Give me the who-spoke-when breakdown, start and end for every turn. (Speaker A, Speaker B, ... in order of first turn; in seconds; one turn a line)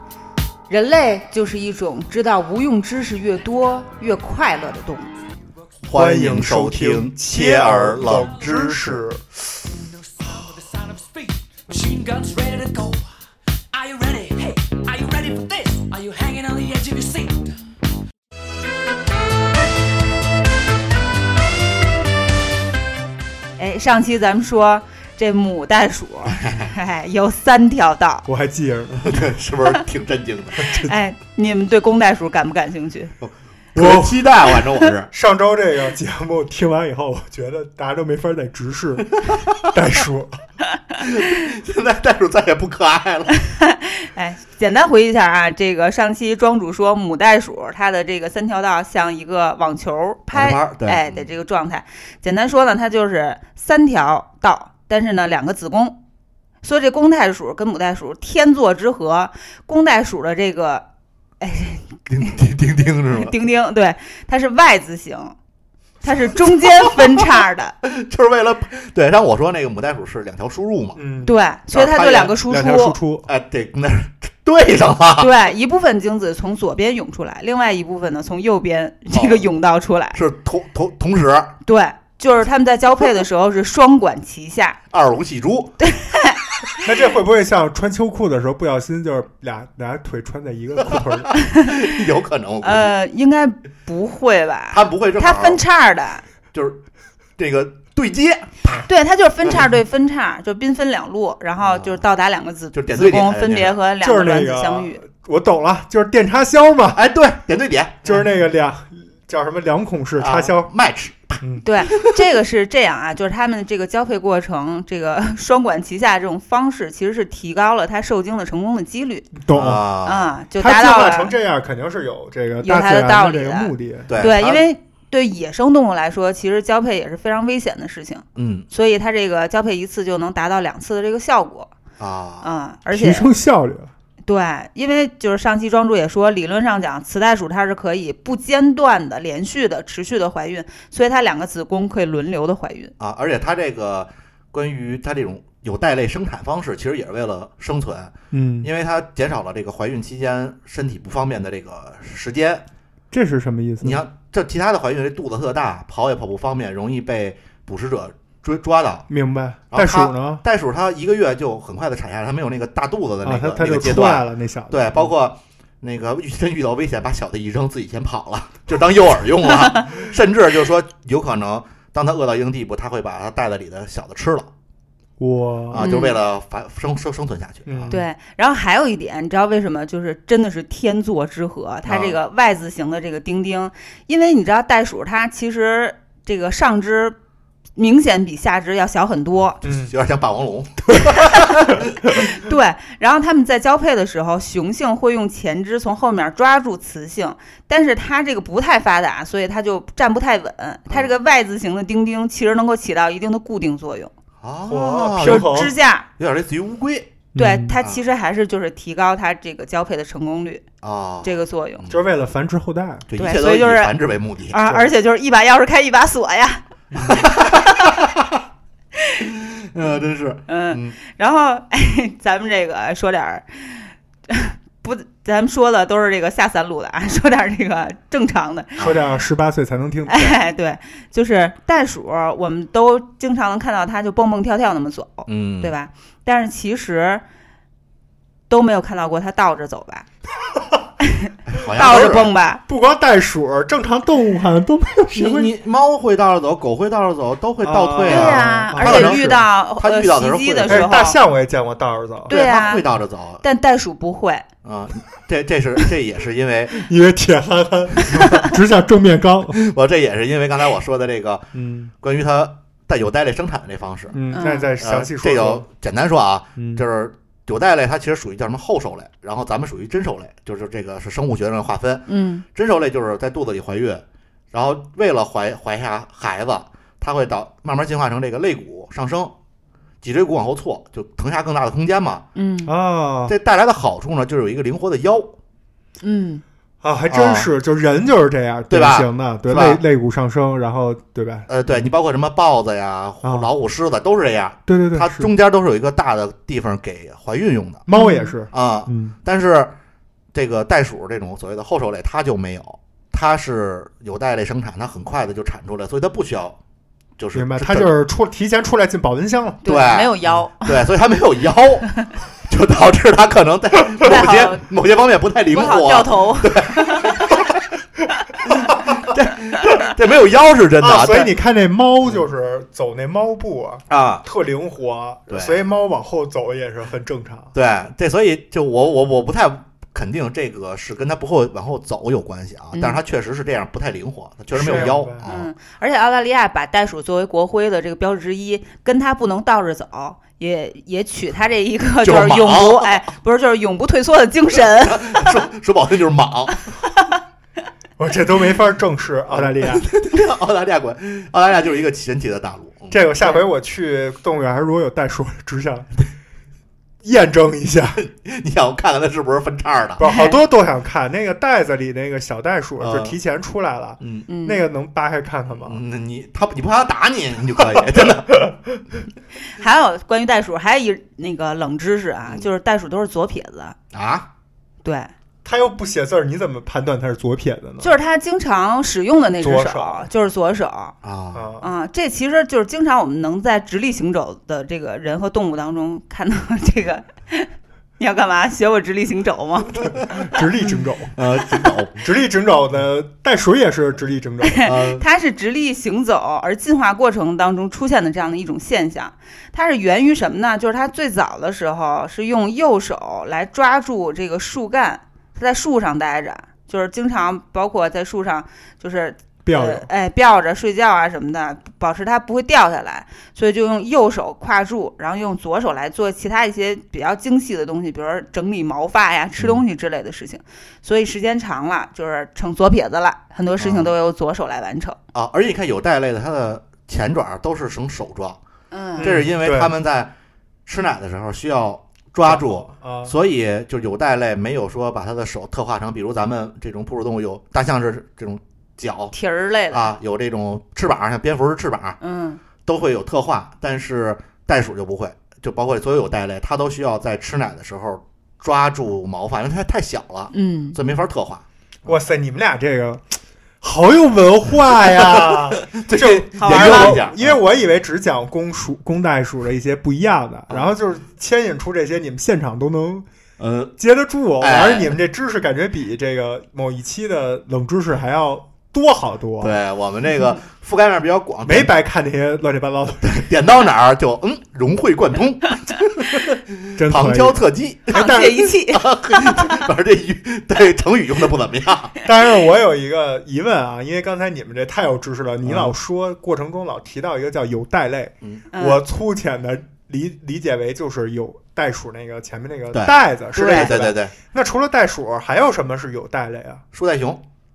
Speaker A: 0.7-5.1
Speaker B: 5.8-9.0
Speaker C: 5.9-9.2
Speaker D: 10.2-13.1
Speaker D: 13.7-17.6
Speaker A: 23.6-28.3
Speaker B: 26.3-26.7
Speaker C: 28.2-29.1
Speaker B: 28.9-30.7
Speaker A: 30.6-33.1
Speaker B: 33.2-35.1
Speaker C: 33.8-34.2
Speaker C: 35.1-40.3
Speaker B: 41.0-43.4
Speaker A: 43.4-56.0
Speaker B: 50.3-51.2
Speaker A: 56.6-60.9
Speaker A: 61.4-62.4
Speaker B: 62.1-63.3
Speaker A: 63.0-65.3
Speaker A: 66.0-67.7
Speaker B: 67.8-71.0
Speaker C: 71.0-71.3
Speaker A: 71.2-73.0
Speaker B: 71.7-72.4
Speaker C: 72.5-73.3
Speaker B: 73.2-75.3
Speaker A: 75.2-80.2
Speaker B: 79.1-79.5
Speaker B: 80.1-81.5
Speaker A: 81.6-84.8
Speaker B: 84.9-85.8
Speaker A: 85.8-86.4
Speaker C: 86.8-91.3
Speaker B: 90.8-92.9
Speaker A: 91.6-91.8
Speaker A: 92.6-96.2
Speaker B: 94.7-95.6
Speaker B: 96.5-96.8
Speaker B: 97.4-98.6
Speaker A: 98.7-105.0
Speaker B: 101.6-102.0
Speaker B: 102.7-103.8
Speaker C: 104.0-107.0
Speaker B: 106.9-108.3
Speaker C: 108.0-110.7
Speaker B: 110.2-112.2
Speaker A: 111.6-119.3
Speaker C: 119.4-119.9
Speaker B: 119.5-120.3
Speaker A: 120.0-121.3
Speaker C: 120.5-124.2
Speaker A: 122.6-131.7
Speaker B: 124.1-124.6
Speaker B: 128.4-128.7
Speaker B: 132.0-132.5
Speaker A: 132.4-133.3
Speaker C: 132.9-133.9
Speaker A: 134.2-142.9
Speaker B: 143.0-152.7
Speaker C: 148.3-148.7
Speaker C: 153.1-154.0
Speaker B: 153.8-159.1
Speaker C: 159.1-160.4
Speaker B: 159.7-174.5
Speaker C: 163.2-165.1
Speaker C: 175.2-175.9
Speaker B: 175.7-178.0
Speaker A: 175.8-176.2
Speaker C: 177.7-178.1
Speaker A: 177.9-187.2
Speaker B: 181.9-182.2
Speaker A: 187.8-189.6
Speaker C: 189.6-189.9
Speaker B: 189.7-192.2
Speaker A: 192.3-204.1
Speaker B: 204.4-207.3
Speaker C: 204.7-205.7
Speaker A: 205.2-206.1
Speaker C: 207.3-207.7
Speaker A: 207.4-210.7
Speaker B: 210.8-212.0
Speaker A: 211.2-211.9
Speaker C: 211.9-213.1
Speaker B: 213.1-214.6
Speaker A: 213.2-213.9
Speaker A: 214.5-216.6
Speaker B: 217.0-218.4
Speaker A: 217.3-217.9
Speaker B: 219.3-221.0
Speaker A: 220.5-229.0
Speaker C: 228.8-230.4
Speaker A: 230.1-237.2
Speaker B: 235.3-235.7
Speaker A: 238.5-240.1
Speaker A: 241.0-242.6
Speaker B: 241.5-242.3
Speaker C: 242.7-245.5
Speaker B: 245.1-251.1
Speaker C: 247.6-249.4
Speaker A: 248.1-251.2
Speaker C: 250.7-252.4
Speaker A: 252.3-252.9
Speaker B: 252.3-253.4
Speaker A: 253.4-254.4
Speaker B: 254.6-256.9
Speaker C: 256.7-259.6
Speaker B: 259.6-264.2
Speaker C: 261.5-261.9
Speaker C: 264.1-265.6
Speaker A: 264.3-264.7
Speaker B: 264.8-279.4
Speaker C: 266.6-266.8
Speaker A: 272.1-272.4
Speaker B: 280.0-282.2
Speaker A: 282.4-282.7
Speaker C: 282.6-283.4
Speaker B: 283.3-285.4
Speaker A: 286.0-286.4
Speaker C: 286.8-291.5
Speaker B: 287.1-287.5
Speaker B: 288.7-289.8
Speaker B: 291.5-297.9
Speaker C: 293.2-293.5
Speaker C: 294.7-295.3
Speaker C: 297.9-299.2
Speaker A: 297.9-298.4
Speaker B: 298.5-299.7
Speaker B: 300.3-306.6
Speaker B: 307.2-307.9
Speaker C: 307.3-309.6
Speaker A: 309.6-310.9
Speaker B: 309.7-311.9
Speaker B: 312.5-317.4
Speaker A: 314.0-314.6
Speaker A: 315.5-317.4
Speaker B: 318.6-321.3
Speaker C: 320.8-327.5
Speaker B: 323.9-324.2
Speaker B: 325.3-325.6
Speaker B: 327.5-335.5
Speaker A: 332.7-333.0
Speaker C: 334.5-335.3
Speaker A: 334.8-345.4
Speaker B: 342.0-342.9
Speaker B: 344.6-346.6
Speaker C: 348.0-349.8
Speaker B: 349.3-353.0
Speaker C: 352.9-356.0
Speaker C: 357.0-358.0
Speaker B: 358.0-360.0
Speaker C: 360.0-365.8
Speaker A: 360.0-360.4
Speaker B: 362.8-363.2
Speaker B: 364.0-364.3
Speaker A: 364.3-364.7
Speaker B: 365.5-368.5
Speaker C: 367.6-368.6
Speaker A: 369.4-373.8
Speaker B: 373.9-374.3
Speaker A: 374.8-375.1
Speaker C: 375.4-378.0
Speaker A: 377.8-380.9
Speaker C: 379.4-380.1
Speaker B: 381.0-381.5
Speaker C: 381.3-381.7
Speaker A: 381.6-389.9
Speaker C: 390.0-391.2
Speaker B: 391.1-392.0
Speaker C: 392.0-394.7
Speaker A: 394.4-425.0
Speaker B: 394.6-395.0
Speaker C: 409.4-409.9
Speaker B: 423.6-423.9
Speaker B: 425.1-428.4
Speaker A: 428.7-429.1
Speaker C: 429.0-429.7
Speaker B: 429.0-430.1
Speaker B: 430.7-439.1
Speaker C: 432.2-433.1
Speaker A: 439.1-439.9
Speaker B: 439.7-442.0
Speaker A: 442.0-442.4
Speaker B: 442.6-451.9
Speaker A: 450.3-450.8
Speaker C: 451.8-453.0
Speaker C: 453.6-463.1
Speaker B: 455.0-457.4
Speaker A: 456.4-457.0
Speaker B: 463.4-463.7
Speaker C: 463.8-469.6
Speaker B: 464.4-465.0
Speaker B: 469.4-471.7
Speaker C: 471.4-473.2
Speaker B: 473.0-478.1
Speaker C: 476.8-478.5
Speaker A: 477.9-479.5
Speaker B: 478.7-481.9
Speaker C: 482.0-496.6
Speaker B: 485.4-485.8
Speaker B: 488.2-488.5
Speaker A: 488.5-488.8
Speaker B: 492.7-494.2
Speaker A: 493.3-493.7
Speaker B: 496.7-497.2